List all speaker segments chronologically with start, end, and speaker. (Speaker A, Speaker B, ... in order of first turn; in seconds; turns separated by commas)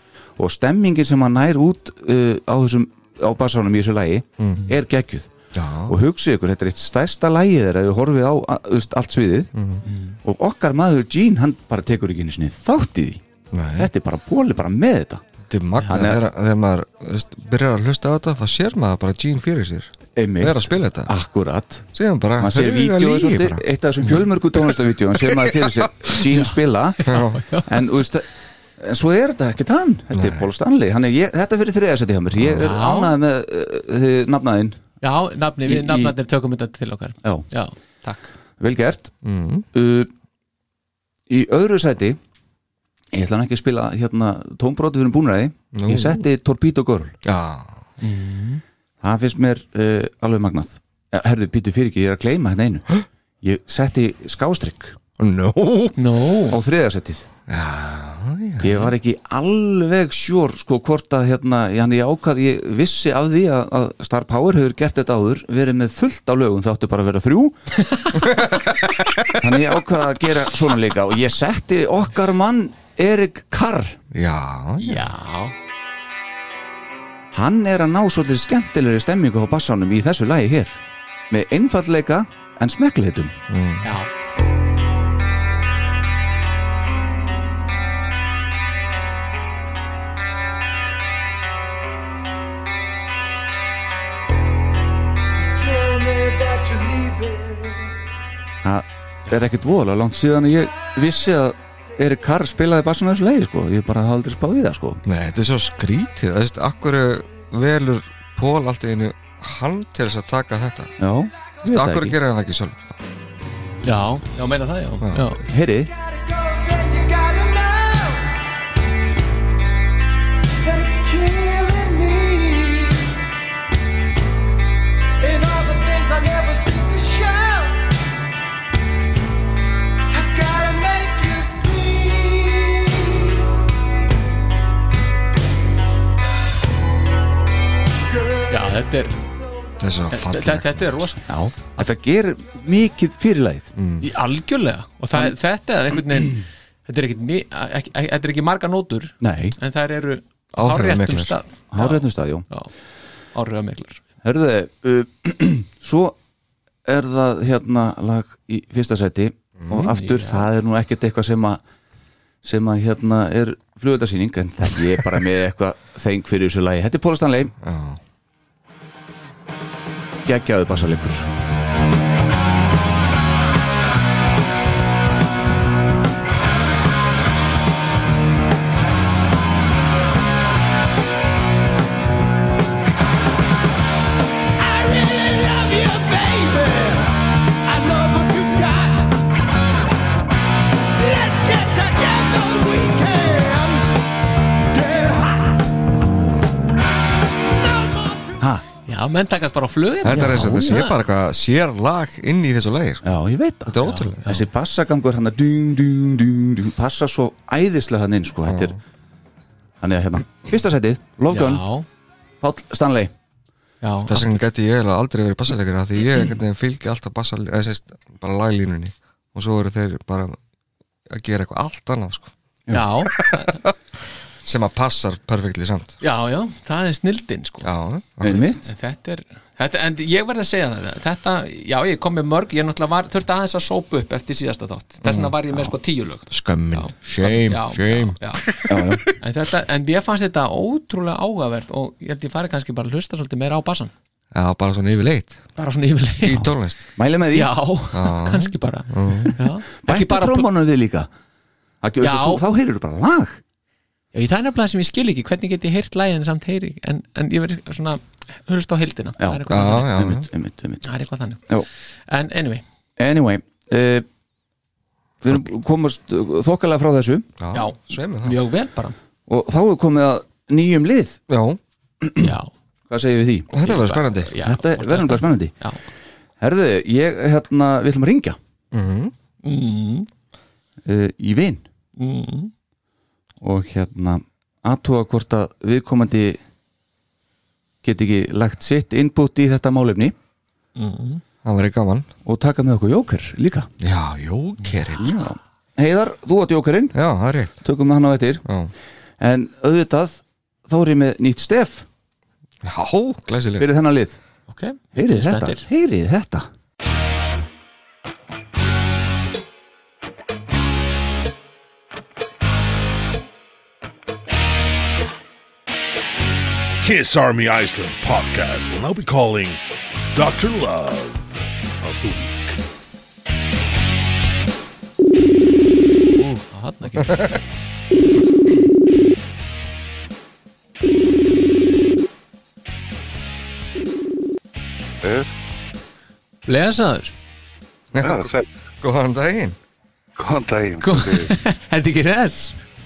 Speaker A: 0.4-5.3, Speaker B: 4.4-4.6, Speaker B: 5.5-6.0, Speaker A: 5.9-9.5, Speaker B: 9.5-9.8, Speaker C: 9.8-10.2, Speaker A: 10.2-13.2, Speaker B: 13.5-13.9, Speaker A: 13.8-15.2, Speaker B: 15.5-21.1, Speaker A: 15.8-16.2, Speaker A: 20.1-21.9, Speaker B: 21.9-23.6, Speaker A: 22.4-27.0, Speaker B: 24.1-25.8, Speaker C: 26.3-27.7, Speaker B: 27.1-27.4, Speaker A: 27.6-34.8, Speaker B: 30.1-30.5, Speaker C: 32.5-33.1, Speaker C: 35.0-38.3, Speaker A: 35.6-36.1, Speaker A: 38.6-39.1, Speaker B: 39.2-39.6, Speaker A: 39.7-40.1, Speaker A: 41.3-42.2, Speaker A: 43.1-47.1, Speaker B: 45.7-46.2, Speaker B: 47.2-47.7, Speaker C: 48.0-48.6, Speaker A: 49.0-52.9, Speaker A: 53.4-55.0, Speaker B: 55.2-56.0, Speaker C: 56.0-56.6, Speaker A: 56.5-57.3, Speaker B: 57.5-58.9, Speaker A: 58.6-67.5, Speaker C: 67.9-68.2, Speaker B: 68.3-69.3, Speaker A: 69.4-74.0, Speaker B: 74.1-75.1, Speaker C: 74.8-75.5, Speaker A: 77.3-83.3, Speaker B: 83.5-83.9, Speaker C: 83.8-84.1, Speaker D: 95.4-97.9, Speaker A: 98.6-105.0, Speaker B: 105.0-110.9, Speaker A: 111.0-112.2, Speaker B: 111.6-113.0, Speaker C: 113.8-115.4, Speaker B: 115.0-115.3, Speaker A: 115.5-115.9, Speaker D: 115.7-118.4, Speaker D: 120.6-123.2, Speaker D: 125.2-127.9, Speaker D: 130.1-133.4, Speaker C: 138.5-139.2, Speaker B: 139.8-140.8, Speaker C: 140.1-141.8, Speaker A: 141.2-143.7, Speaker B: 143.8-144.1, Speaker C: 144.0-152.7, Speaker A: 149.2-149.6, Speaker B: 150.6-151.3, Speaker A: 151.7-152.4, Speaker C: 153.3-154.0, Speaker A: 154.2-156.2, Speaker A: 156.8-161.6, Speaker B: 159.6-159.9, Speaker C: 159.8-160.5, Speaker A: 162.4-167.5, Speaker B: 167.6-168.0, Speaker A: 170.2-171.3, Speaker D: 184.6-189.3, Speaker D: 190.9-194.0, Speaker D: 194.7-195.7, Speaker D: 197.5-198.4, Speaker A: 198.4-198.6, Speaker C: 198.8-201.0, Speaker B: 200.0-203.0, Speaker A: 203.0-208.8, Speaker B: 203.7-204.3, Speaker C: 203.8-204.4, Speaker B: 208.5-208.8, Speaker A: 209.8-211.6, Speaker C: 211.3-211.8, Speaker A: 212.4-213.1, Speaker C: 213.8-214.4, Speaker B: 214.1-220.3, Speaker B: 221.1-222.3, Speaker C: 222.7-223.6, Speaker B: 223.1-223.7, Speaker B: 224.4-226.0, Speaker C: 226.0-227.7, Speaker B: 227.6-228.4, Speaker A: 228.2-228.7, Speaker C: 228.6-238.5, Speaker B: 235.0-235.3, Speaker B: 236.3-238.6, Speaker A: 238.7-239.0, Speaker C: 239.1-243.9, Speaker B: 244.3-245.4, Speaker C: 245.6-246.5, Speaker B: 246.2-246.8, Speaker A: 247.0-247.5, Speaker C: 247.3-250.5, Speaker B: 247.9-249.4, Speaker A: 249.8-251.1, Speaker A: 251.8-253.4, Speaker C: 252.0-252.4, Speaker C: 254.1-259.9, Speaker A: 259.2-260.9, Speaker B: 259.5-260.2, Speaker C: 260.8-261.4, Speaker C: 262.1-262.6, Speaker A: 263.0-264.1, Speaker A: 265.2-267.3, Speaker B: 267.4-268.4, Speaker C: 267.5-268.9, Speaker A: 269.3-271.2, Speaker B: 271.3-271.6, Speaker A: 272.0-272.3, Speaker C: 272.2-272.5, Speaker A: 272.9-273.5, Speaker B: 273.5-274.3, Speaker C: 273.6-275.8, Speaker A: 274.4-275.5, Speaker A: 276.4-278.4, Speaker B: 278.7-279.1, Speaker C: 279.4-280.1, Speaker A: 280.8-281.6, Speaker C: 282.0-282.5, Speaker A: 283.4-286.4, Speaker A: 287.8-290.1, Speaker C: 290.8-291.2, Speaker B: 291.4-292.1, Speaker A: 292.2-293.7, Speaker B: 293.8-295.2, Speaker A: 294.9-296.9, Speaker B: 296.9-297.6, Speaker A: 297.6-298.4, Speaker B: 298.4-298.7, Speaker A: 299.2-301.9, Speaker B: 302.6-303.7, Speaker A: 303.6-304.2, Speaker C: 304.5-305.6, Speaker A: 304.9-306.5, Speaker E: 316.8-322.6, Speaker C: 326.4-327.4, Speaker B: 327.1-327.4, Speaker F: 335.0-335.3, Speaker C: 336.4-337.1, Speaker B: 337.9-338.3, Speaker F: 338.0-338.5, Speaker B: 338.8-339.6, Speaker F: 340.2-341.3, Speaker C: 340.8-342.6